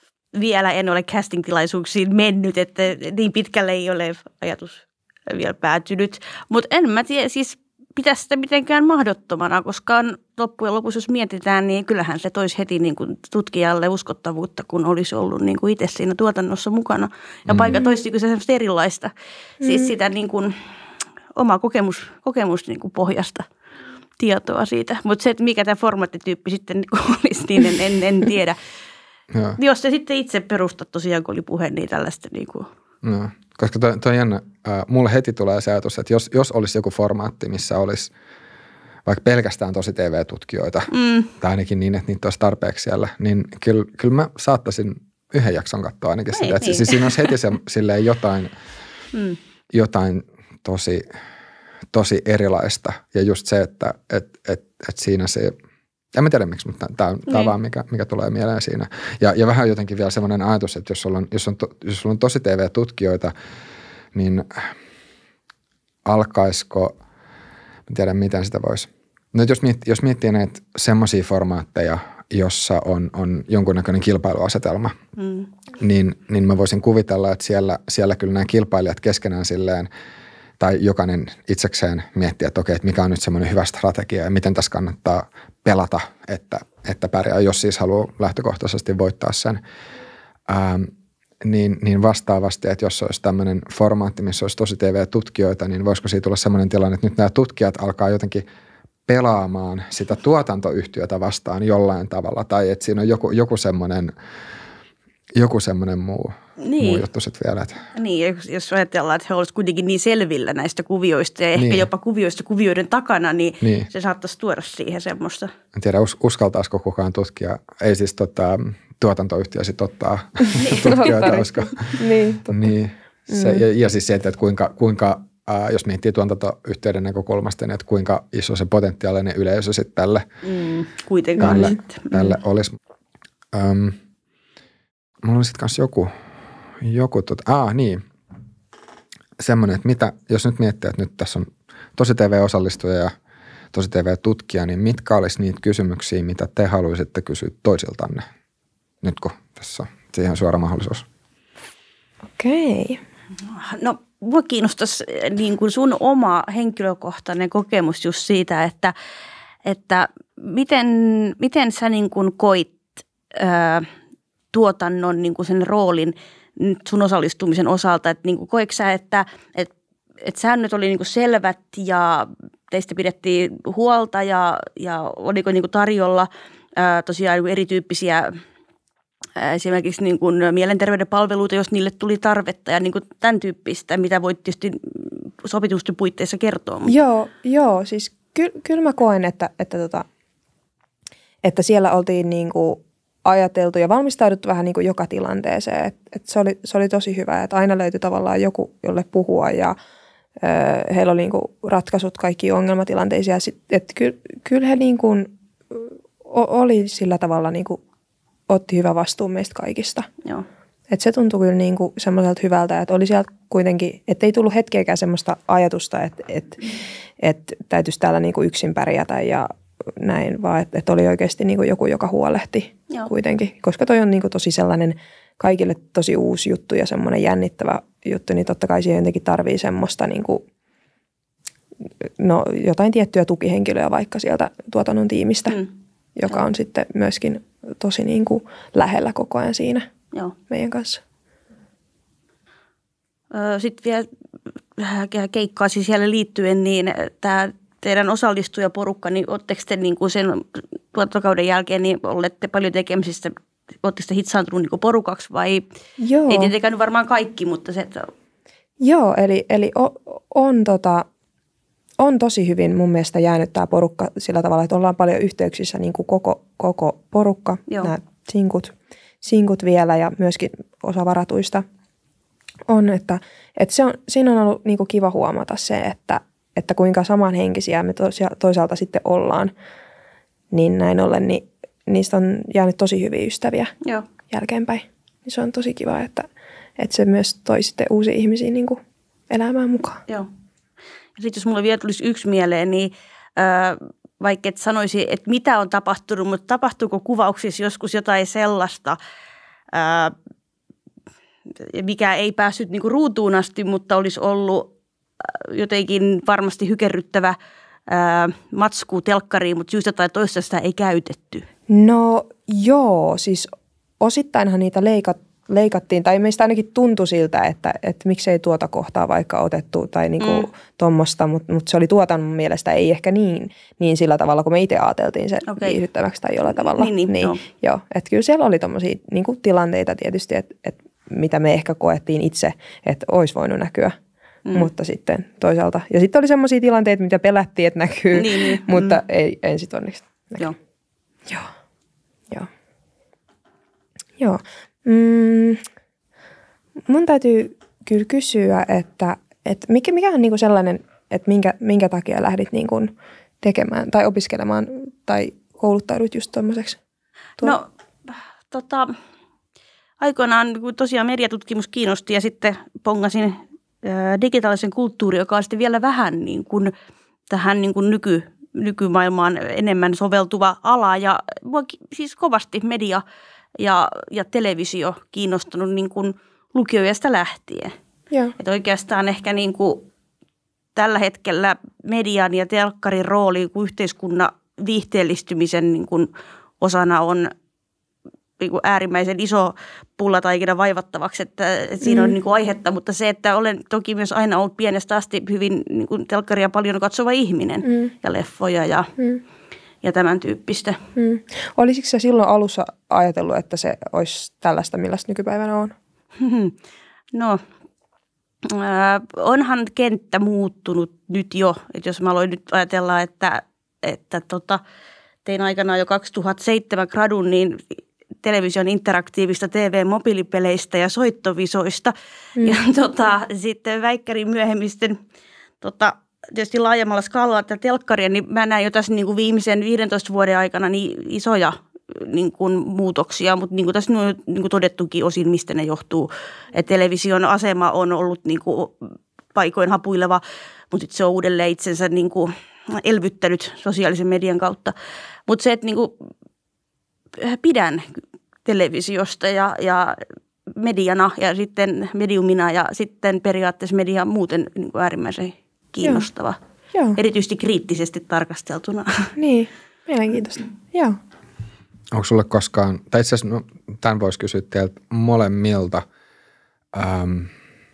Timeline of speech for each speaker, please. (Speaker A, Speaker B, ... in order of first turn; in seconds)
Speaker A: 0.3-20.5, 21.4-23.4, 24.2-28.6, 29.6-32.7, 40.9-41.3, 46.4-47.3, 75.2-75.5, 106.6-107.0, 108.0-115.5, 120.6-121.4, 130.4-132.3, 153.5-158.9, 159.6-163.9, 164.5-178.3, 179.3-186.9, 243.3-244.1, 244.8-255.6, 256.3-258.1, 291.2-299.0, 299.7-300.1, 301.6-304.7, 305.2-307.4, 307.9-311.4, 320.2-320.5, 325.5-325.8, 326.5-327.4, 338.1-339.0, 357.4-358.9, 360.0-366.7, 367.3-373.0, 373.6-377.7, 378.4-379.9, 380.8-387.3, 388.4-398.9, 399.8-400.8, 406.2-406.6, 407.1-407.4, 408.4-414.6, 415.2-417.6, 418.2-425.0, 425.6-438.8, 439.3-444.7, 445.3-445.9, 447.2-450.0, 450.5-456.4, 456.9-459.1
Speaker B: 17.5-17.8, 29.3-29.6, 33.0-38.1, 39.0-48.5, 49.7-51.0, 51.9-55.5, 56.1-63.3, 64.1-64.7, 66.0-67.0, 67.9-75.0, 75.8-79.9, 80.6-89.6, 90.5-98.4, 99.1-104.1, 105.3-107.8, 111.5-111.9, 113.6-113.9, 115.7-130.2, 131.4-132.7, 133.5-134.0, 135.2-136.1, 136.8-138.0, 139.4-143.1, 143.7-148.2, 149.0-151.1, 461.9-465.8, 466.7-467.3
Speaker C: 19.6-19.9, 120.5-122.7, 123.3-123.6, 131.4-131.8, 152.4-153.0, 186.9-190.0, 191.4-199.8, 200.4-207.8, 208.5-210.1, 210.9-216.7, 217.2-230.4, 232.2-235.6, 236.2-239.9, 240.5-241.0, 256.0-256.5, 258.8-261.1, 262.0-271.6, 272.7-279.5, 280.5-283.7, 284.3-290.0, 311.7-333.9, 334.5-340.5, 344.2-345.6, 346.9-356.8, 391.8-392.1, 397.6-397.9, 400.9-405.7, 459.2-461.0